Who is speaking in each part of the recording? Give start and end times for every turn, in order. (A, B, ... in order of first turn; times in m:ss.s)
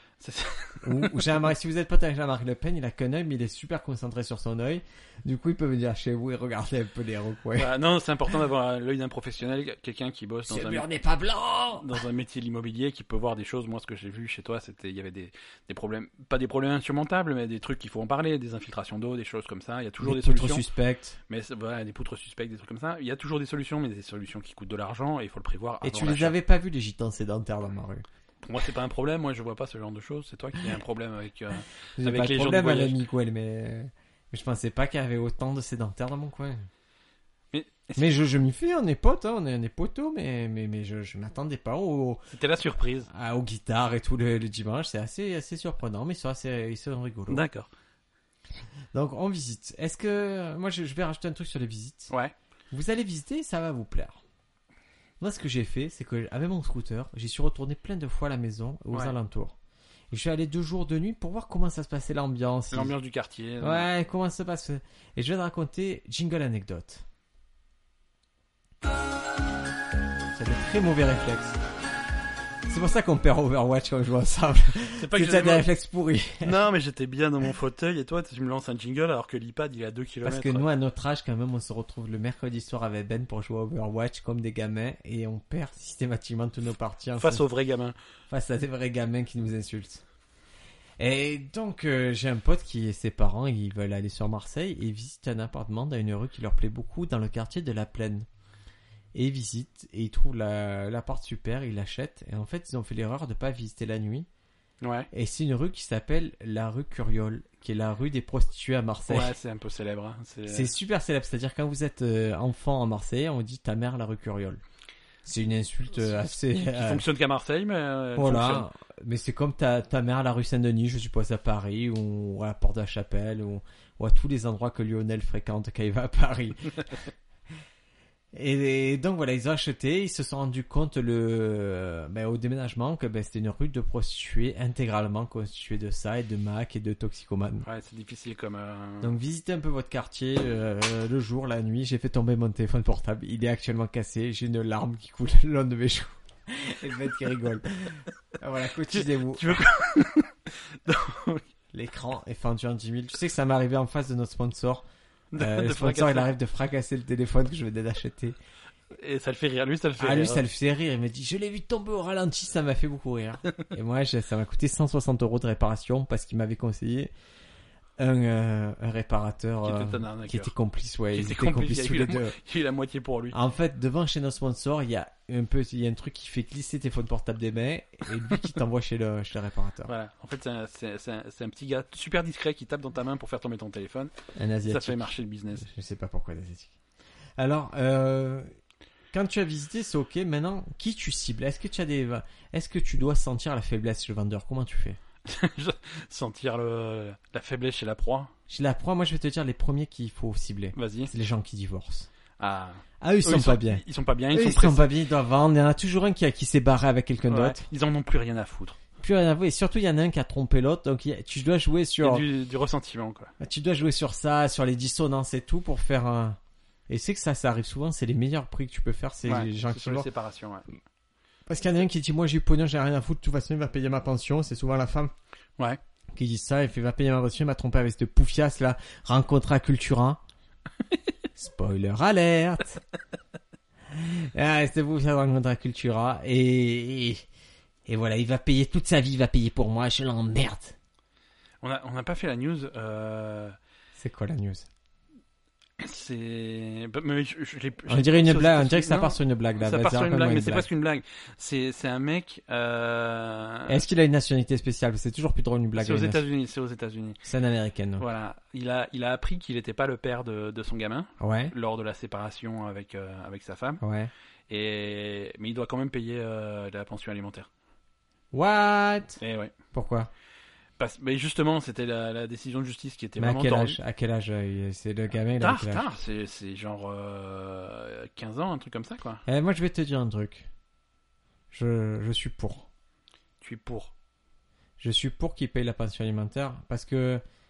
0:00.2-0:01.3 A
0:00.8-0:07.7 B
0:07.5-0:10.9 A
0:10.5-0:12.0 B
0:11.8-0:20.6 A
0:20.0-0:21.2 B
0:21.3-0:26.4 A
0:25.8-0:28.0 B
0:28.4-0:33.0 A
0:32.0-0:36.7 B
0:37.5-0:38.2 A
0:38.0-0:42.2 B
0:42.3-0:43.1 A
0:43.1-0:47.4 B
0:47.3-0:47.7 A
0:48.9-0:52.1 B
0:52.7-0:54.2 B
0:55.2-0:59.6 B
1:00.1-1:02.9 B
1:02.7-1:03.9 A
1:03.6-1:07.0 B
1:10.3-1:11.6 B
1:12.6-1:16.6 B
1:15.0-1:15.6 A
1:16.4-1:20.7 A
1:20.2-1:27.4 B
1:27.2-1:28.0 A
1:28.3-1:30.0 B
1:31.0-1:38.2 B
1:39.1-1:44.3 B
1:44.8-1:45.1 A
1:45.1-1:49.3 B
1:49.1-1:50.7 A
1:50.5-1:54.6 B
1:55.2-1:57.0 B
1:56.0-1:58.7 A
1:58.2-2:07.0 B
2:08.3-2:17.6 B
2:17.6-2:19.2 A
2:19.0-2:29.6 B
2:28.9-2:31.4 A
2:31.7-2:34.8 B
2:35.3-2:36.3 A
2:35.4-2:38.4 B
2:38.9-2:40.4 A
2:40.0-2:47.1 B
2:48.0-2:52.4 B
2:49.6-2:50.5 A
2:51.1-2:53.4 A
2:53.3-2:59.9 B
2:59.8-3:04.1 A
3:04.4-3:06.7 B
3:04.6-3:05.7 A
3:07.4-3:08.5 B
3:09.1-3:15.0 B
3:15.2-3:18.3 A
3:18.5-3:22.1 B
3:20.7-3:21.1 A
3:22.4-3:24.9 A
3:23.0-3:27.6 B
3:27.3-3:28.8 A
3:29.0-3:32.3 B
3:32.0-3:33.3 A
3:33.4-3:40.1 B
3:39.2-3:40.7 A
3:41.5-3:45.1 B
3:46.1-3:50.2 B
3:51.4-3:52.8 B
3:53.9-3:57.2 B
3:57.8-4:00.8 B
4:01.6-4:03.6 A
4:03.9-4:04.7 B
4:05.8-4:13.8 A
4:07.9-4:10.7 B
4:13.7-4:16.2 B
4:15.8-4:17.2 A
4:17.2-4:18.0 B
4:18.0-4:23.8 A
4:21.2-4:21.5 B
4:23.8-4:24.1 B
4:24.5-4:27.5 A
4:28.3-4:29.2 B
4:29.2-4:29.5 A
4:29.7-4:30.1 B
4:30.8-4:33.8 A
4:33.2-4:35.9 B
4:35.4-4:39.2 A
4:39.2-4:40.5 B
4:41.5-4:42.7 B
4:43.4-4:43.9 A
4:44.8-4:47.2 B